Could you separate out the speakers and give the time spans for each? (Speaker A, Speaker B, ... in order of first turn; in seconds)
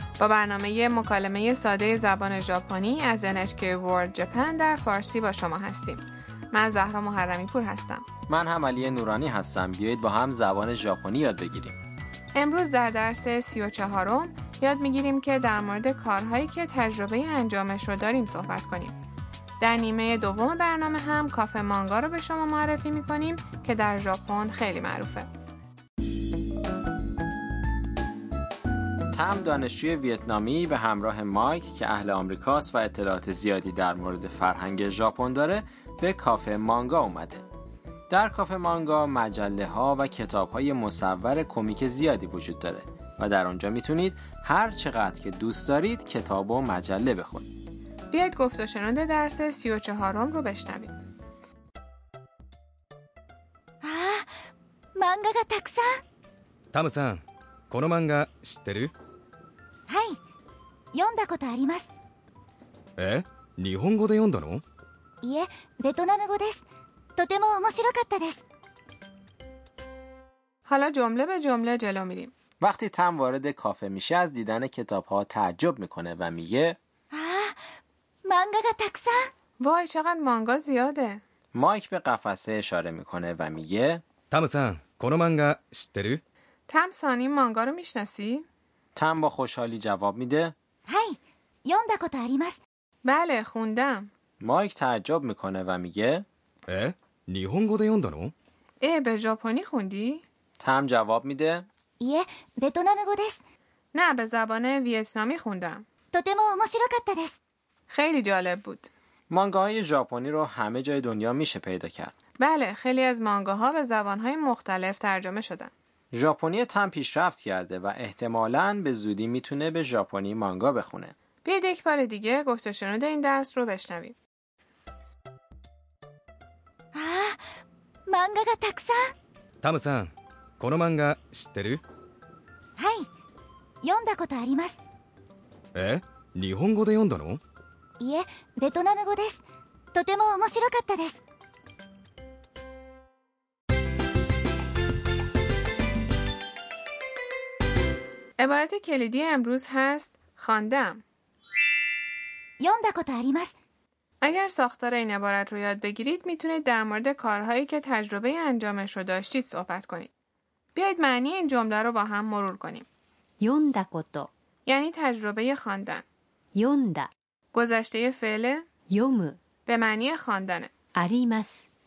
Speaker A: 0.2-8.1, 12.3-19.0, 19.6-25.3, 48.1-50.9, 70.7-72.3, 79.6-81.2, 86.7-88.5, 93.0-94.1, 98.8-100.2, 103.9-105.8, 107.9-108.9, 112.4-115.7, 121.4-124.2, 148.4-151.0, 154.2-160.1, 160.8-162.9, 164.7-166.1, 167.5-168.7, 169.7-170.7
Speaker B: 8.3-11.8, 29.1-37.4, 38.1-47.5, 72.6-76.8, 81.5-84.0, 89.0-90.5, 94.4-96.2, 100.6-101.7, 109.3-112.1, 116.1-121.1
Speaker C: 53.8-54.3, 55.0-56.0, 59.9-60.2, 60.9-61.9, 65.2-66.6, 67.2-68.4, 77.1-77.5, 78.3-79.3, 90.9-92.6, 102.0-103.4, 106.1-107.3, 126.9-127.4, 128.1-129.1, 132.8-133.1, 133.8-134.8, 138.0-139.4, 139.9-141.2, 152.6-153.6
Speaker D: 56.7-58.9, 63.0-64.6, 84.3-86.2, 96.7-98.3, 129.6-131.8, 135.8-137.4
Speaker E: 163.4-164.3, 166.6-167.1, 168.9-169.4, 171.0-171.7